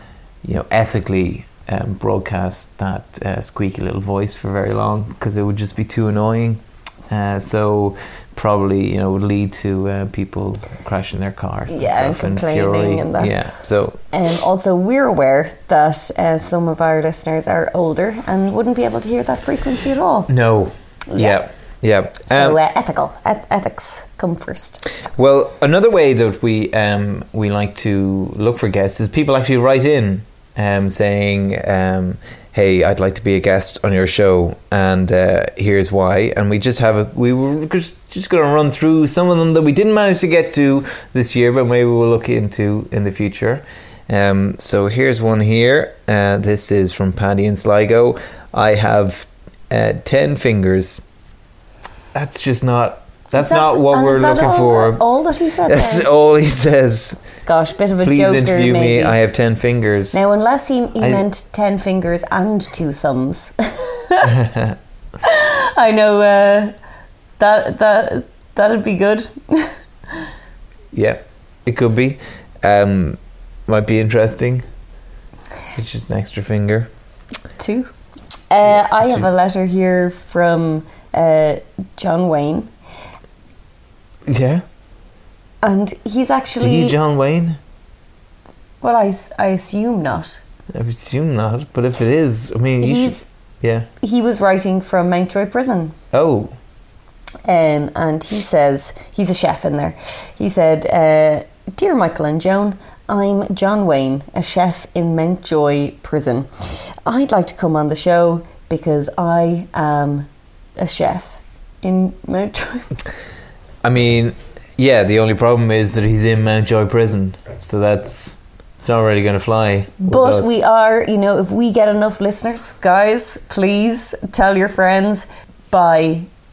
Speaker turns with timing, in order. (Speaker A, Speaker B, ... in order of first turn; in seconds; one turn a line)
Speaker A: 0.4-14.0
Speaker B: 11.7-13.4
Speaker B: 14.1-20.3
Speaker A: 20.3-22.6
Speaker B: 21.1-21.4
Speaker B: 22.2-24.8
Speaker A: 25.1-51.0
Speaker A: 52.1-55.0
Speaker B: 53.3-56.1
Speaker A: 55.6-57.2
Speaker B: 57.4-59.2
Speaker A: 58.0-60.2
Speaker B: 60.1-64.4
Speaker A: 61.0-61.2
Speaker A: 64.2-64.8
Speaker B: 65.2-66.7
Speaker B: 67.4-70.3
Speaker A: 70.9-74.7
Speaker A: 75.7-76.9
Speaker B: 77.6-77.9
Speaker B: 78.5-82.7
Speaker A: 79.0-79.2
Speaker A: 84.2-84.6
Speaker B: 85.6-87.0
Speaker A: 86.6-87.6
Speaker B: 88.8-90.4
Speaker A: 90.7-93.9
Speaker B: 92.8-93.2
Speaker B: 94.0-96.0
Speaker A: 96.1-96.5
Speaker B: 97.4-113.0
Speaker A: 113.8-120.6
Speaker B: 120.0-126.3